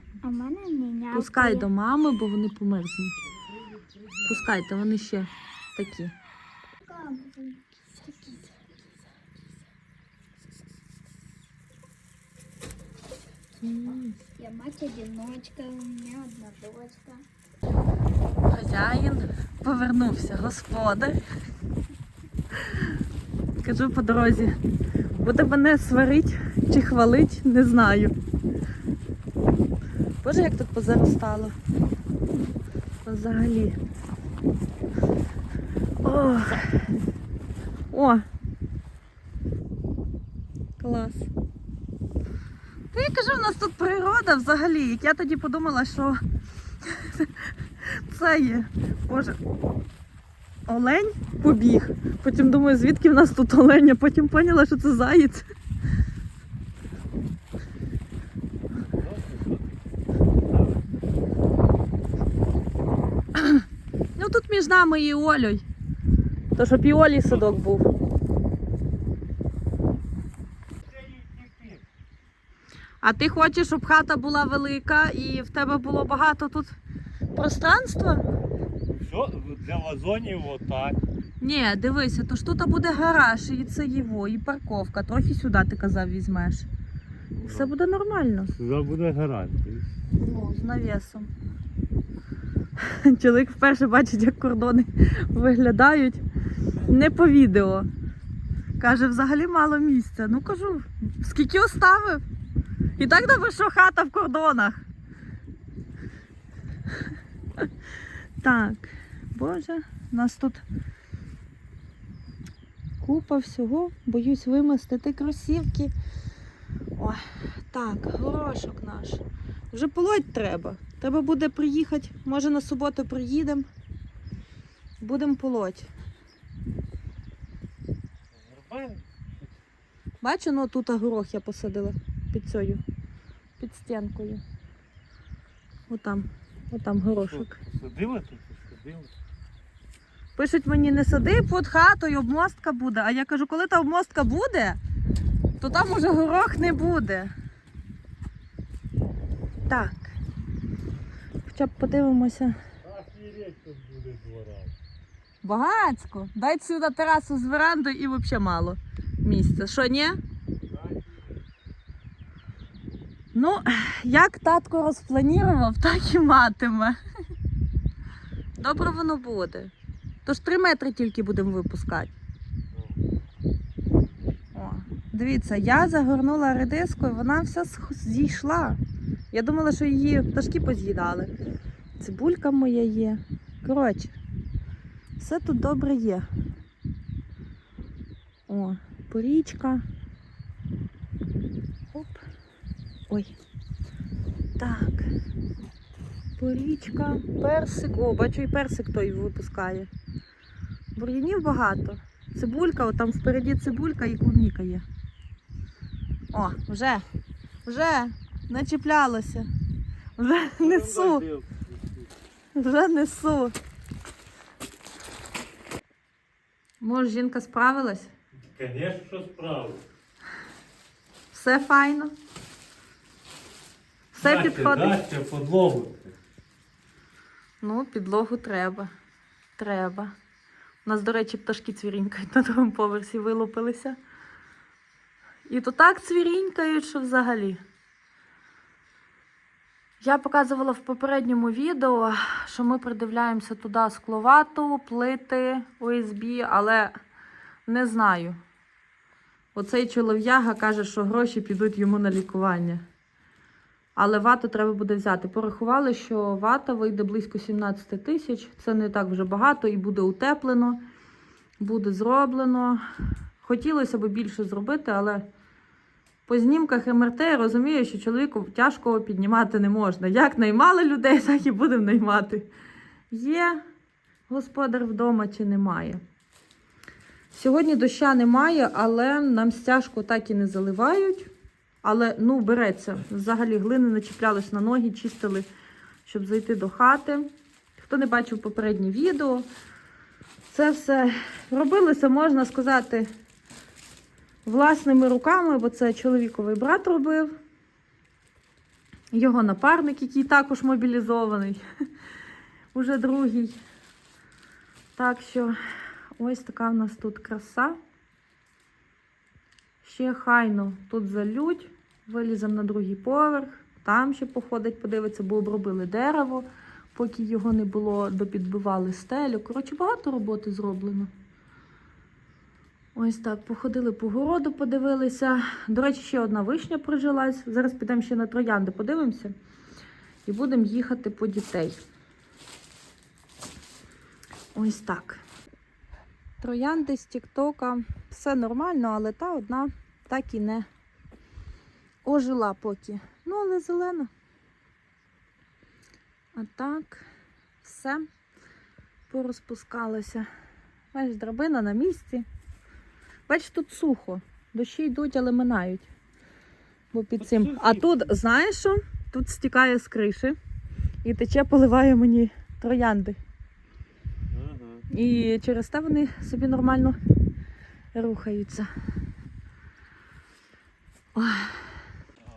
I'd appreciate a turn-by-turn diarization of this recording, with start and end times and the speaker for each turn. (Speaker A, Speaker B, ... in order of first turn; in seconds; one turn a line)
Speaker A: 0.2-1.6
Speaker B: 1.1-3.2
Speaker B: 4.2-6.1
Speaker A: 6.8-8.4
Speaker B: 13.6-14.2
Speaker A: 14.4-17.2
Speaker B: 18.5-21.2
Speaker B: 23.6-24.6
Speaker B: 25.1-28.1
Speaker B: 30.2-31.6
Speaker B: 33.0-33.8
Speaker B: 36.0-36.6
Speaker B: 37.9-38.2
Speaker B: 40.8-41.3
Speaker B: 42.9-46.2
Speaker B: 48.0-49.4
Speaker B: 50.7-55.4
Speaker C: 58.8-59.7
Speaker C: 60.5-60.8
Speaker B: 64.2-65.6
Speaker B: 66.5-67.9
Speaker C: 67.3-67.6
Speaker C: 70.9-71.8
Speaker B: 73.0-76.8
Speaker B: 77.3-78.2
Speaker C: 78.9-81.0
Speaker B: 81.4-86.7
Speaker C: 87.4-87.7
Speaker B: 87.4-88.5
Speaker C: 88.5-89.9
Speaker B: 90.2-91.3
Speaker B: 92.8-96.2
Speaker B: 96.8-97.9
Speaker B: 98.8-102.2
Speaker B: 103.0-104.8
Speaker B: 108.4-110.6
Speaker B: 113.0-115.9
Speaker B: 117.0-123.7
Speaker B: 125.0-125.9
Speaker C: 128.3-129.5
Speaker B: 130.2-132.8
Speaker B: 133.6-134.4
Speaker B: 135.9-137.6
Speaker C: 137.2-139.1
Speaker B: 140.3-144.8
Speaker B: 145.6-147.3
Speaker B: 149.7-150.1
Speaker B: 151.4-152.6
Speaker C: 152.8-154.7
Speaker B: 155.4-160.2
Speaker C: 160.7-161.0
Speaker B: 163.3-167.0
Speaker B: 168.6-169.7
Speaker B: 170.2-172.1
Speaker B: 174.5-178.8
Speaker B: 179.3-181.3
Speaker B: 182.0-184.2
Speaker B: 185.2-186.2
Speaker B: 188.5-189.8
Speaker B: 191.9-192.2
Speaker B: 194.6-195.1
Speaker B: 196.4-199.9
Speaker B: 200.9-204.8
Speaker B: 206.3-207.1
Speaker B: 207.6-209.5
Speaker B: 210.2-211.2
Speaker C: 210.6-212.1
Speaker B: 212.5-213.5
Speaker B: 216.8-218.1
Speaker C: 218.4-219.8
Speaker B: 221.3-222.1
Speaker B: 224.1-225.0
Speaker C: 224.2-226.1
Speaker B: 227.6-228.9
Speaker B: 229.6-230.1
Speaker B: 230.8-234.0
Speaker B: 235.5-237.6
Speaker B: 240.0-246.9
Speaker B: 247.7-248.4
Speaker B: 249.5-252.8
Speaker B: 253.9-260.8
Speaker B: 261.6-262.8
Speaker B: 263.4-265.2
Speaker B: 266.3-272.5
Speaker B: 273.1-273.6
Speaker B: 274.3-276.0
Speaker B: 277.3-281.3
Speaker B: 281.8-285.5
Speaker B: 286.0-289.5
Speaker B: 290.5-293.1
Speaker B: 294.4-297.3
Speaker B: 299.1-301.6
Speaker B: 302.7-303.6
Speaker B: 304.9-305.5
Speaker B: 306.2-307.8
Speaker B: 309.8-321.1
Speaker B: 322.9-329.3
Speaker B: 330.2-331.8
Speaker B: 334.5-335.2
Speaker B: 336.4-340.7
Speaker B: 342.0-344.1
Speaker B: 346.3-347.1
Speaker B: 347.6-348.0
Speaker B: 349.1-350.3
Speaker B: 350.9-352.2
Speaker B: 353.3-355.9
Speaker B: 356.9-360.4
Speaker C: 357.2-357.9
Speaker B: 361.0-363.2
Speaker C: 364.3-364.8
Speaker B: 364.9-367.0
Speaker B: 367.9-368.7
Speaker B: 371.1-371.6